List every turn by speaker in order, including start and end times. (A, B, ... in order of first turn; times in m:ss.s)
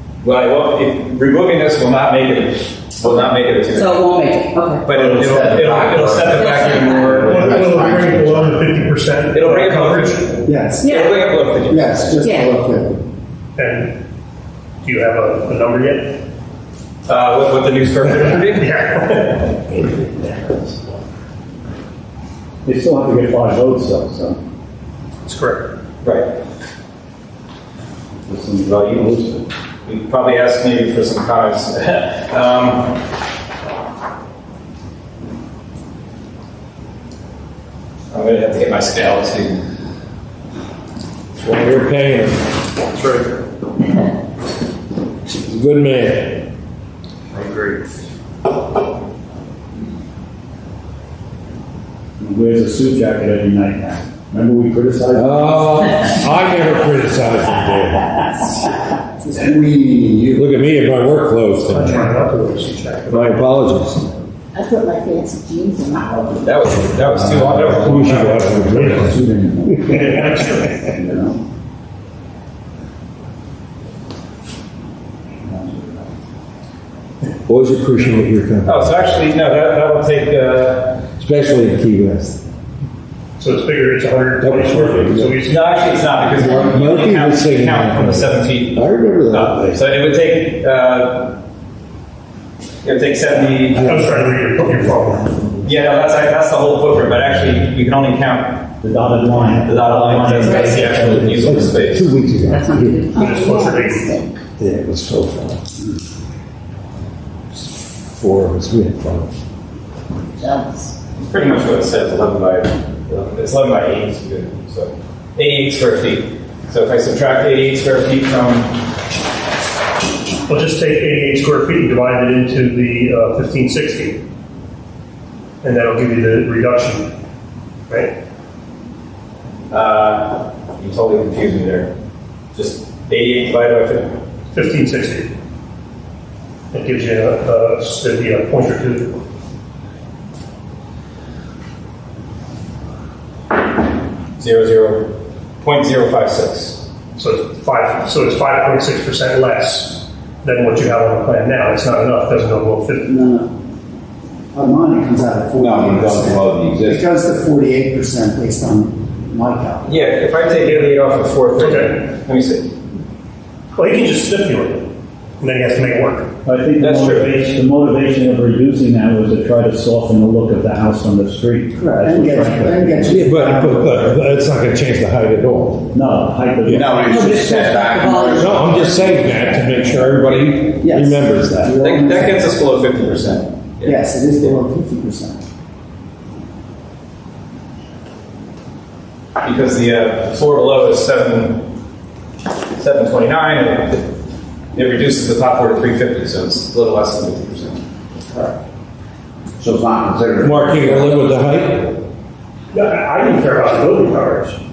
0:00.2-0:04.0 A
0:03.7-0:04.9 B
0:04.8-0:07.4 A
0:04.9-0:08.6 C
0:06.3-0:07.5 B
0:07.3-0:10.2 D
0:09.3-0:12.2 A
0:10.4-0:10.9 E
0:10.8-0:11.2 B
0:11.7-0:13.0 E
0:12.2-0:12.5 B
0:13.6-0:13.9 D
0:14.8-0:16.2 D
0:17.1-0:18.7 A
0:18.1-0:19.6 D
0:19.7-0:20.7 F
0:22.6-0:24.4 F
0:25.2-0:25.7 D
0:26.0-0:26.3 A
0:28.3-0:29.3 F
0:28.4-0:33.0 A
0:38.1-0:39.6 A
0:41.4-0:42.4 G
0:42.9-0:43.3 A
0:45.3-0:46.4 G
0:52.2-0:56.1 F
0:55.1-0:58.5 G
0:59.2-1:00.3 E
0:59.5-1:00.5 C
1:00.3-1:02.2 G
1:01.7-1:03.4 D
1:03.1-1:04.0 G
1:04.5-1:06.4 H
1:06.4-1:08.5 A
1:07.1-1:10.0 F
1:07.7-1:10.1 G
1:09.9-1:10.7 D
1:10.9-1:11.4 E
1:15.5-1:16.0 F
1:17.5-1:18.9 G
1:18.6-1:21.0 A
1:21.2-1:22.4 G
1:23.4-1:25.6 D
1:24.4-1:25.4 G
1:25.4-1:31.4 A
1:26.3-1:29.8 G
1:32.8-1:33.9 A
1:33.7-1:34.2 G
1:33.8-1:35.2 D
1:34.4-1:35.6 F
1:35.6-1:38.7 A
1:38.8-1:41.8 F
1:39.5-1:42.1 A
1:41.4-1:43.0 G
1:42.5-1:43.7 B
1:43.1-1:44.3 H
1:43.2-1:44.0 D
1:44.6-1:45.6 G
1:47.5-1:49.3 G
1:50.4-1:50.9 H
1:51.1-1:58.7 A
2:00.5-2:04.2 D
2:05.6-2:07.1 D
2:09.7-2:11.9 A
2:12.5-2:14.1 A
2:14.5-2:15.3 D
2:16.7-2:19.2 D
2:24.4-2:25.1 A
2:25.6-2:26.8 A
2:27.2-2:33.4 D
2:34.5-2:40.0 E
2:35.6-2:37.0 C
2:39.8-2:42.7 A
2:41.6-2:41.9 D
2:43.7-2:46.3 D
2:46.4-2:53.3 F
2:46.8-2:47.3 A
2:51.7-2:54.1 E
2:53.1-2:55.9 G
2:55.9-2:56.9 F
2:56.6-2:58.9 C
2:57.0-2:59.0 B
2:58.3-3:01.7 G
3:00.8-3:02.4 E
3:01.8-3:04.0 A
3:03.8-3:05.4 E
3:09.4-3:11.7 A
3:12.8-3:14.1 A
3:14.7-3:17.8 A
3:19.6-3:21.1 C
3:20.4-3:21.9 G
3:22.7-3:24.6 D